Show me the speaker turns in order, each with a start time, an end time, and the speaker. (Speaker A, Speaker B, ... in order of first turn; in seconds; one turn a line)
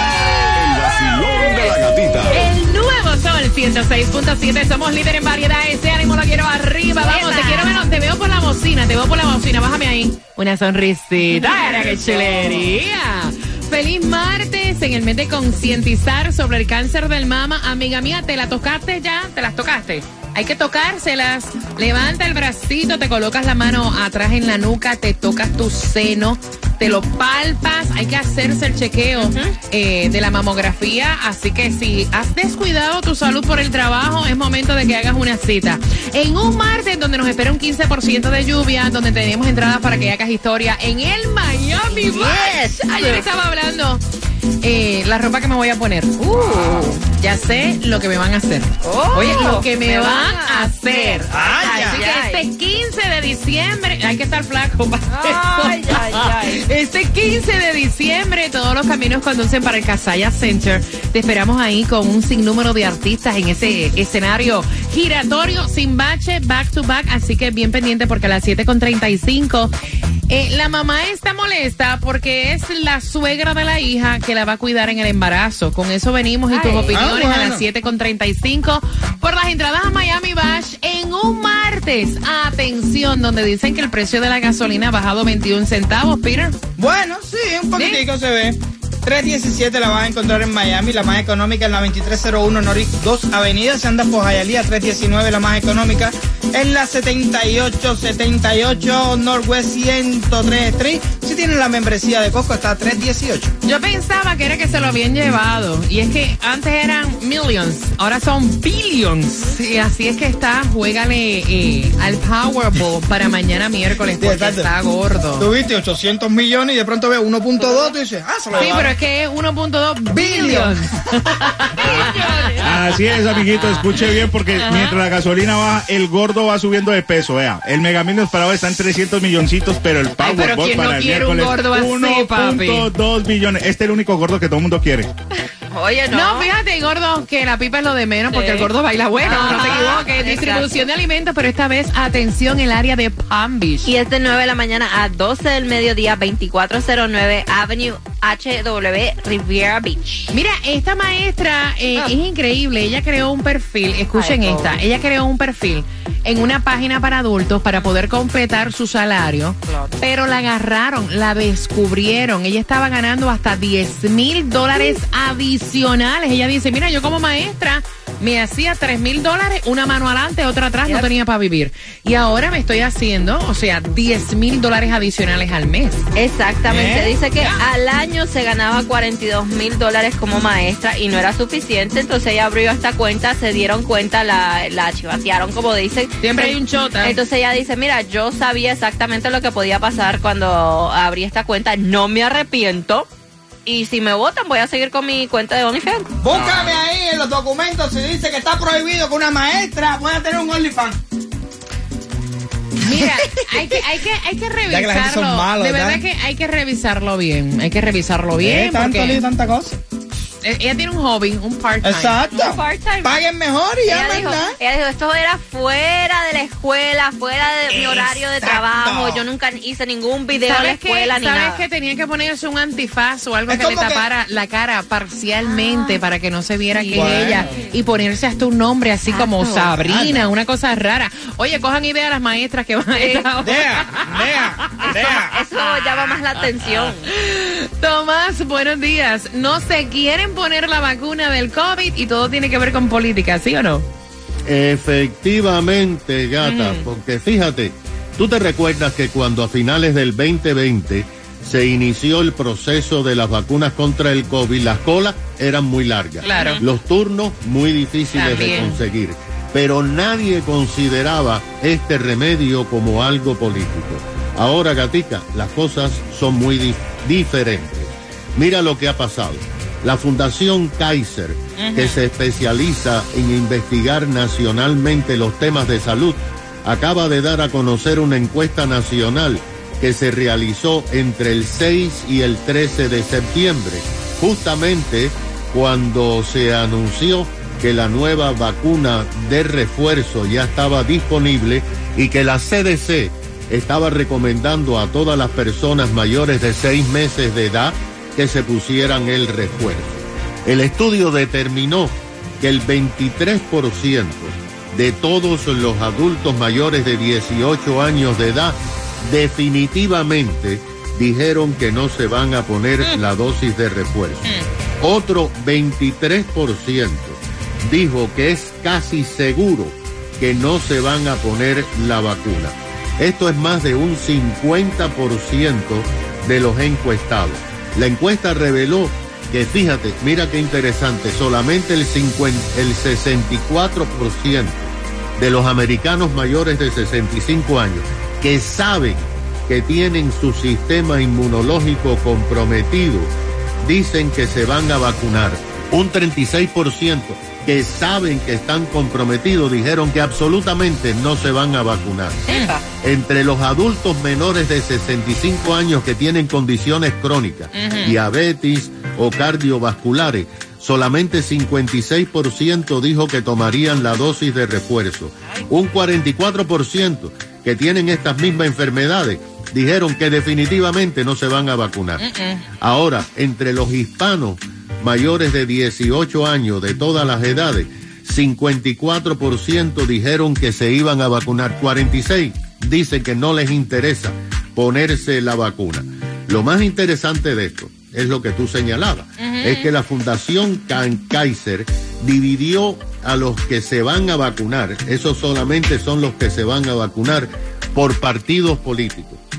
Speaker A: 0.5-2.5
Speaker B: 2.3-44.0
Speaker C: 7.0-7.8
Speaker D: 11.6-12.7
Speaker C: 29.1-29.6
Speaker C: 41.9-43.3
Speaker B: 44.6-46.2
Speaker C: 46.2-47.0
Speaker D: 46.4-46.9
Speaker B: 47.0-69.7
Speaker C: 48.8-52.5
Speaker D: 51.3-52.0
Speaker C: 55.1-56.6
Speaker B: 70.3-86.6
Speaker C: 76.5-77.0
Speaker D: 76.9-77.6
Speaker D: 86.8-103.5
Speaker B: 87.8-88.0
Speaker B: 103.6-115.5
Speaker D: 114.2-114.7
Speaker D: 115.4-119.0
Speaker B: 118.5-122.7
Speaker D: 120.1-120.8
Speaker E: 121.8-135.1
Speaker C: 121.8-122.6
Speaker B: 124.6-125.0
Speaker B: 130.2-132.9
Speaker C: 135.7-136.5
Speaker B: 136.1-143.9
Speaker C: 138.3-140.7
Speaker C: 143.8-150.3
Speaker B: 150.3-176.1
Speaker C: 154.1-154.8
Speaker C: 159.7-159.9
Speaker C: 176.1-193.1
Speaker D: 176.7-177.2
Speaker B: 186.2-187.2
Speaker C: 193.7-196.1
Speaker D: 196.2-201.0
Speaker E: 196.3-196.8
Speaker B: 202.8-209.2
Speaker D: 204.7-206.0
Speaker D: 208.4-209.8
Speaker B: 210.4-212.2
Speaker D: 211.8-214.6
Speaker C: 212.3-213.2
Speaker C: 213.9-221.6
Speaker D: 217.7-219.2
Speaker B: 220.3-234.1
Speaker D: 223.5-224.1
Speaker C: 225.4-226.0
Speaker C: 226.7-227.7
Speaker D: 226.9-227.5
Speaker C: 229.1-230.0
Speaker C: 232.9-233.3
Speaker D: 233.4-235.4
Speaker C: 235.3-237.1
Speaker B: 237.1-243.8
Speaker F: 244.4-343.1
Speaker B: 246.4-246.8
Speaker B: 256.2-256.6
Speaker C: 256.3-256.6
Speaker B: 258.1-258.8
Speaker B: 271.6-272.0
Speaker F: 343.6-352.3
Speaker C: 352.3-352.6
Speaker B: 352.3-352.6
Speaker F: 352.8-372.1
Speaker B: 357.5-357.9
Speaker B: 372.0-372.4
Speaker F: 372.6-399.2
Speaker B: 389.2-389.7